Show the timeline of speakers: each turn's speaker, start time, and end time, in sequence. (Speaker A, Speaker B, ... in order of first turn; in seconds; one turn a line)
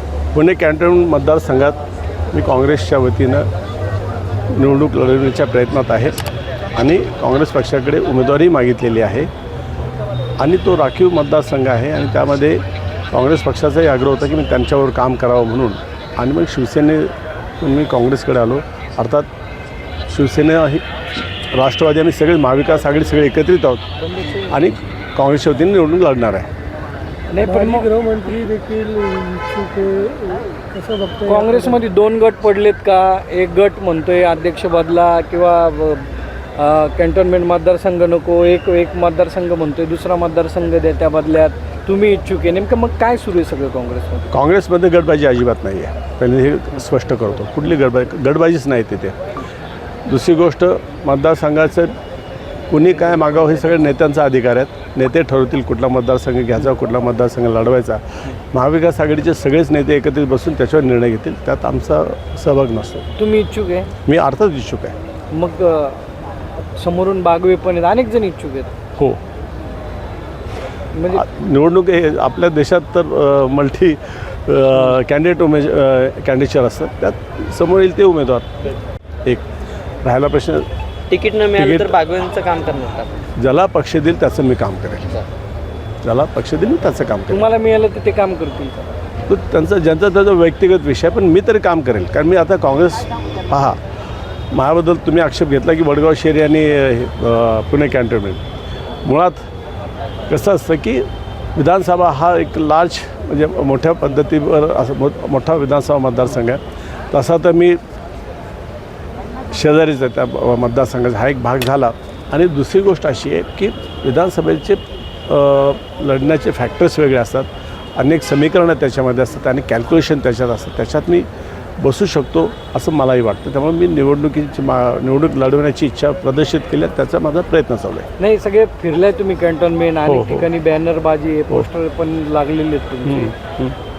Speaker A: 0.3-1.8
Speaker A: 2.3-3.5
Speaker A: 4.5-6.2
Speaker A: 6.7-9.3
Speaker A: 10.4-19.3
Speaker A: 20.1-20.8
Speaker A: 21.4-26.5
Speaker B: 27.3-27.9
Speaker C: 27.4-31.8
Speaker B: 31.2-44.3
Speaker A: 44.3-49.2
Speaker A: 50.1-51.9
Speaker A: 52.7-63.0
Speaker B: 63.2-63.9
Speaker A: 64.0-64.9
Speaker B: 65.3-66.0
Speaker B: 66.8-68.7
Speaker B: 70.9-71.3
Speaker A: 71.1-78.7
Speaker A: 80.0-80.7
Speaker D: 81.1-83.1
Speaker A: 81.5-82.0
Speaker A: 83.4-85.2
Speaker A: 86.0-87.5
Speaker B: 87.3-88.9
Speaker A: 89.3-93.8
Speaker A: 94.5-98.4
Speaker A: 99.0-99.4
Speaker A: 100.3-107.8
Speaker A: 109.5-121.3
Speaker A: 121.8-128.1
Speaker B: 128.2-133.3
Speaker A: 130.1-130.5
Speaker A: 133.0-133.7